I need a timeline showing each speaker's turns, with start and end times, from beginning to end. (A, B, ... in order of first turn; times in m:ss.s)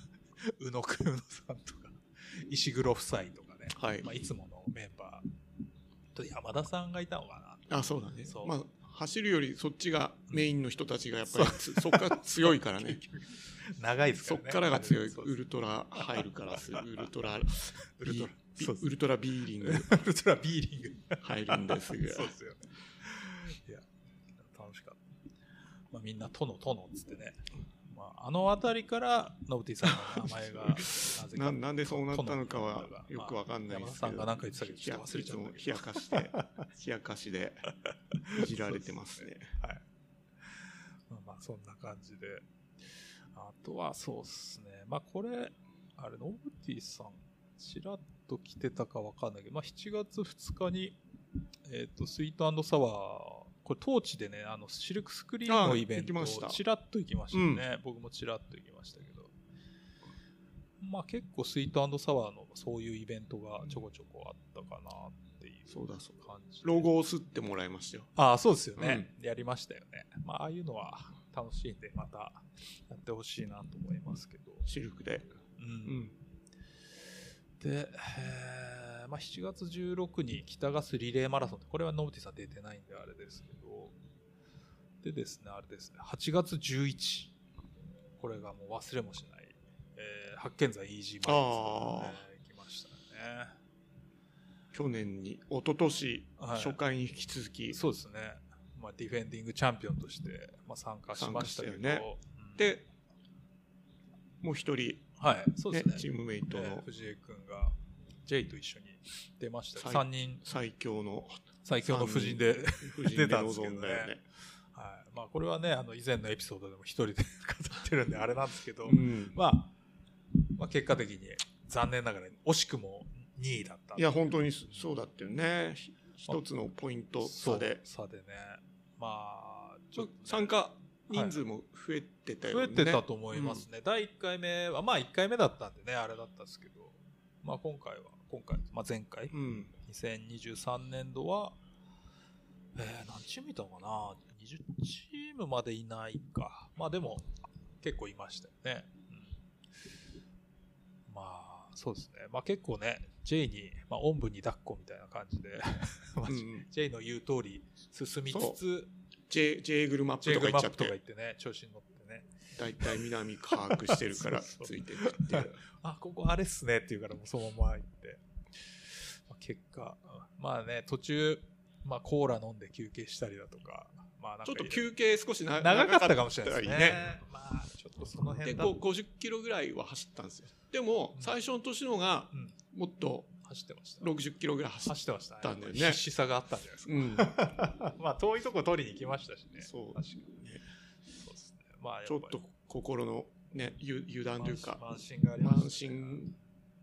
0:00.4-0:05.2 A
0:03.7-0:04.1 B
0:06.1-0:07.7 A
0:07.7-0:13.0 B
0:08.2-0:08.5 A
0:11.3-0:15.3 A
0:14.2-0:20.1 B
0:16.0-0:17.1 A
0:18.0-0:18.9 A
0:19.6-0:23.8 A
0:21.2-0:22.3 B
0:24.4-0:25.0 A
0:25.9-0:36.6 A
0:29.9-0:37.7 B
0:38.2-0:38.9 A
0:38.3-0:39.5 B
0:39.6-0:39.8 A
0:41.1-0:42.4 A
0:43.3-0:51.0 A
0:51.6-0:59.3 A
0:55.5-0:56.6 B
0:57.3-0:57.6 B
1:00.8-1:06.9 A
1:05.7-1:08.1 B
1:08.2-1:14.7 A
1:08.8-1:09.1 B
1:14.6-1:15.3 B
1:15.6-1:16.0 A
1:15.8-1:16.1 B
1:17.6-1:23.9 A
1:25.0-1:27.3 A
1:28.2-1:33.5 A
1:31.2-1:32.2 B
1:34.7-1:37.8 B
1:36.4-1:36.8 A
1:37.7-1:42.7 A
1:41.1-1:42.0 B
1:42.6-1:42.9 B
1:44.4-1:45.1 B
1:45.2-1:50.4 A
1:45.7-1:46.8 B
1:49.8-1:54.2 B
1:51.6-1:54.1 A
1:54.7-1:59.7 A
1:58.8-1:59.4 B
2:00.5-2:04.2 A
2:04.0-2:07.8 B
2:07.2-2:10.5 A
2:10.0-2:13.6 B
2:11.1-2:11.4 A
2:12.5-2:21.6 A
2:19.3-2:19.7 B
2:22.8-2:27.3 A
2:27.8-2:29.2 A
2:31.1-2:38.9 A
2:36.3-2:36.6 B
2:38.3-2:38.6 B
2:39.3-2:40.9 B
2:40.2-2:42.3 A
2:42.5-2:45.6 B
2:42.8-2:48.2 A
2:48.9-2:54.9 A
2:54.4-2:57.2 B
2:55.6-2:58.8 A
2:58.4-3:03.3 B
3:03.4-3:04.1 A
3:04.0-3:06.0 B
3:04.8-3:10.4 A
3:06.8-3:07.6 B
3:09.6-3:10.6 B
3:11.2-3:12.4 A
3:12.0-3:14.8 B
3:14.4-3:16.2 A
3:15.4-3:16.4 B